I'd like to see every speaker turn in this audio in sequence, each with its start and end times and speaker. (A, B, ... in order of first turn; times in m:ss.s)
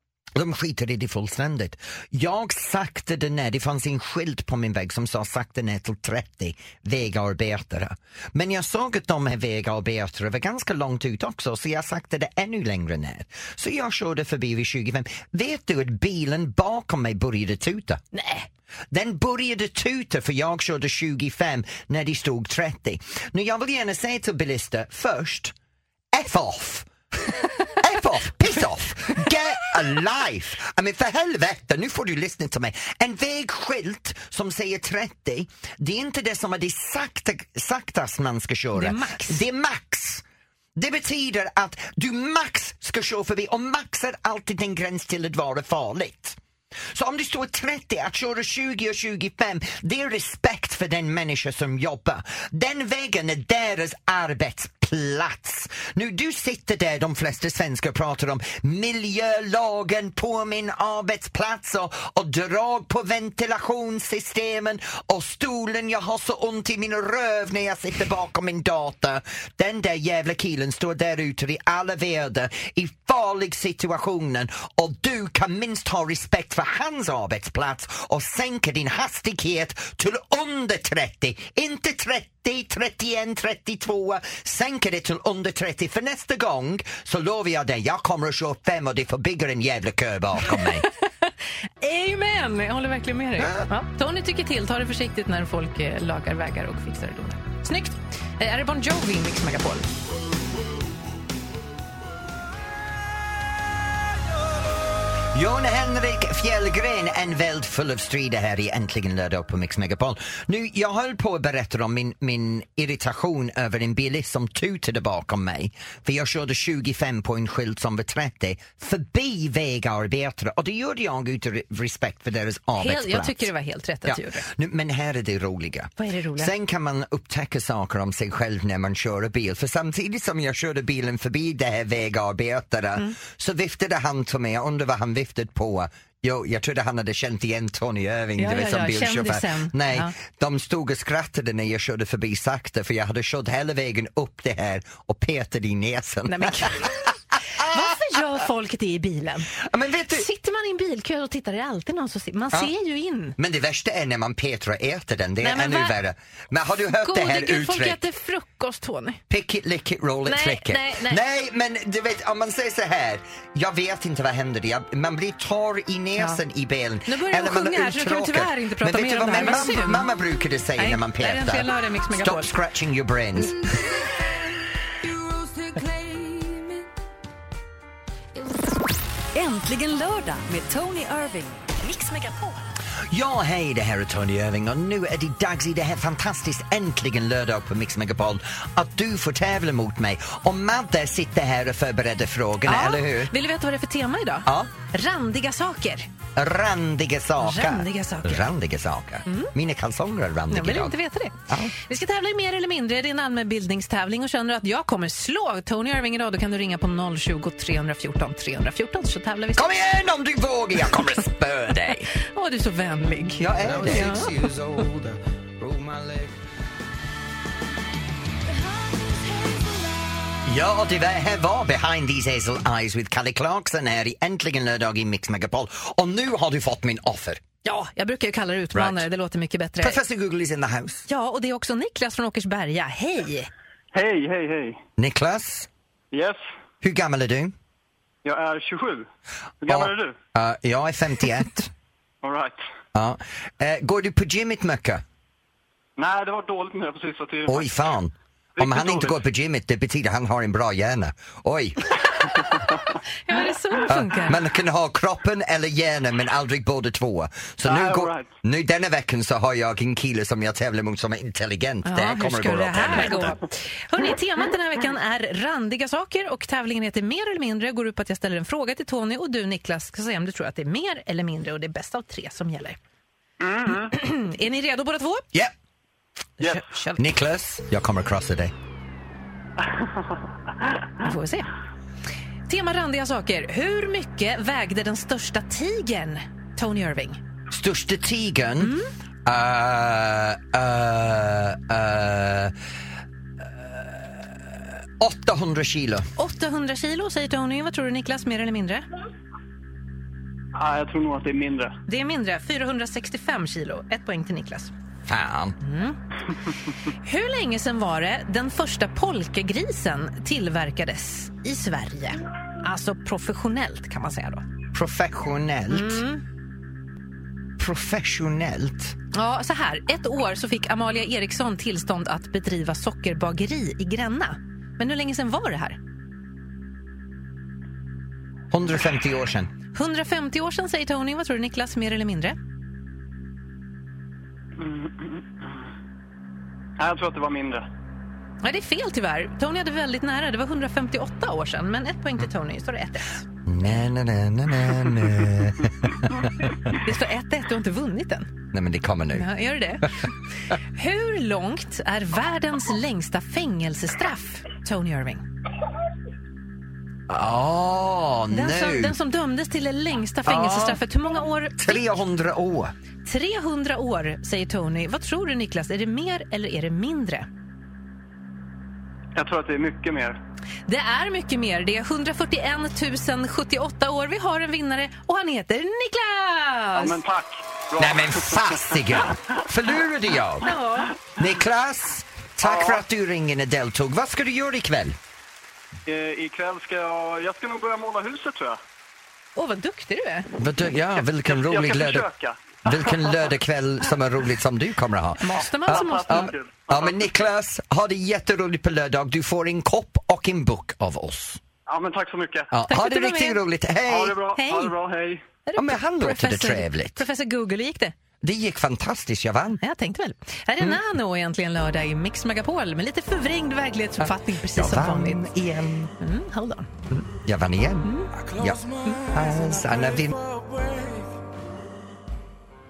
0:00.3-0:18.0 A
0:18.1-0:18.5 B
0:18.9-0:25.5 A
0:26.1-0:40.2 A
0:38.7-0:39.4 B
0:40.8-0:46.4 A
0:46.9-1:30.8 A
1:30.5-1:39.9 B
1:33.4-1:33.7 A
1:45.3-2:03.5 A
2:02.8-2:04.5 B
2:04.0-2:28.2 A
2:06.0-2:06.5 B
2:18.4-2:20.1 B
2:26.3-2:27.0 B
2:27.6-2:29.6 B
2:29.6-2:30.3 A
2:30.1-2:33.4 B
2:33.4-2:38.0 A
2:35.4-2:36.0 B
2:37.0-2:39.2 B
2:39.3-2:53.7 A
2:40.2-2:41.2 B
2:47.1-2:50.1 B
2:50.8-2:52.5 B
2:55.5-2:56.7 C
2:58.4-2:58.6 C
2:59.3-3:02.5 C
3:03.1-3:13.3 A
3:12.6-3:16.1 B
3:14.4-3:14.7 A
3:16.4-3:20.9 A
3:17.4-3:18.5 B
3:19.2-3:19.5 B
3:20.5-3:29.7 B
3:21.5-3:21.8 A
3:29.5-3:32.1 A
3:32.2-3:34.3 B
3:33.4-3:34.5 A
3:33.6-3:36.3 D
3:40.4-3:47.4 A
3:47.6-3:50.0 B
3:48.7-3:49.0 A
3:49.8-3:51.0 A
3:51.1-3:53.5 B
3:53.9-3:54.8 E
3:55.0-3:55.7 A
3:56.1-3:56.4 E
3:56.8-3:57.5 A
3:58.2-3:59.1 E
3:59.6-4:00.2 E
3:59.6-4:01.7 A
4:02.2-4:02.6 E
4:02.9-4:05.0 A
4:06.0-4:07.7 E
4:07.5-4:12.0 A
4:08.6-4:09.1 E
4:12.4-4:12.8 E
4:13.3-4:14.4 B
4:13.8-4:23.3 A
4:17.6-4:18.3 E
4:21.8-4:32.8 B
4:33.4-4:33.9 E
4:33.7-4:35.2 B
4:36.4-4:37.0 B
4:37.0-4:38.5 A
4:41.0-4:41.5 B
4:42.5-4:47.2 B
4:47.5-4:52.5 A
4:48.6-4:48.9 B
4:53.4-4:56.1 A
4:56.2-4:58.8 B
5:00.5-5:01.8 E
5:01.9-5:04.7 B
5:05.0-5:05.6 A
5:05.6-5:06.0 B
5:07.0-5:14.4 B
5:14.7-5:16.0 A
5:15.7-5:16.2 B
5:17.6-5:19.0 A
5:19.1-5:25.8 B
5:28.5-5:29.5 A
5:29.7-5:32.4 B
5:34.6-5:35.6 E
5:36.8-5:37.6 E
5:38.4-5:43.2 B
5:43.4-5:46.6 A
5:46.7-5:48.3 B
5:48.5-5:49.3 A
5:49.1-5:55.2 B
5:57.1-5:59.0 A
5:58.3-6:01.9 B
6:00.2-6:00.8 A
6:01.6-6:02.7 A
6:03.0-6:07.3 B
6:09.1-6:10.2 E
6:10.7-6:17.0 B
6:16.7-6:18.9 E
6:17.8-6:20.5 A
6:20.4-6:21.0 B
6:21.2-6:25.0 A
6:22.4-6:22.8 E
6:25.8-6:28.6 E
6:29.4-6:30.3 B
6:30.4-6:32.1 A
6:31.2-6:33.2 E
6:32.6-6:41.4 A
6:35.2-6:36.3 B
6:35.7-6:37.0 E
6:41.7-6:42.5 E
6:42.5-6:44.2 A
6:42.7-6:43.4 B
6:43.9-6:45.2 E
6:44.4-6:44.7 B
6:45.4-6:47.9 B
6:45.6-6:47.0 A
6:48.2-6:49.6 A
6:49.6-6:55.3 B
6:54.0-6:55.9 A
6:56.0-6:56.7 B
6:56.9-7:00.2 A
6:57.8-6:58.1 B
6:58.2-7:01.1 D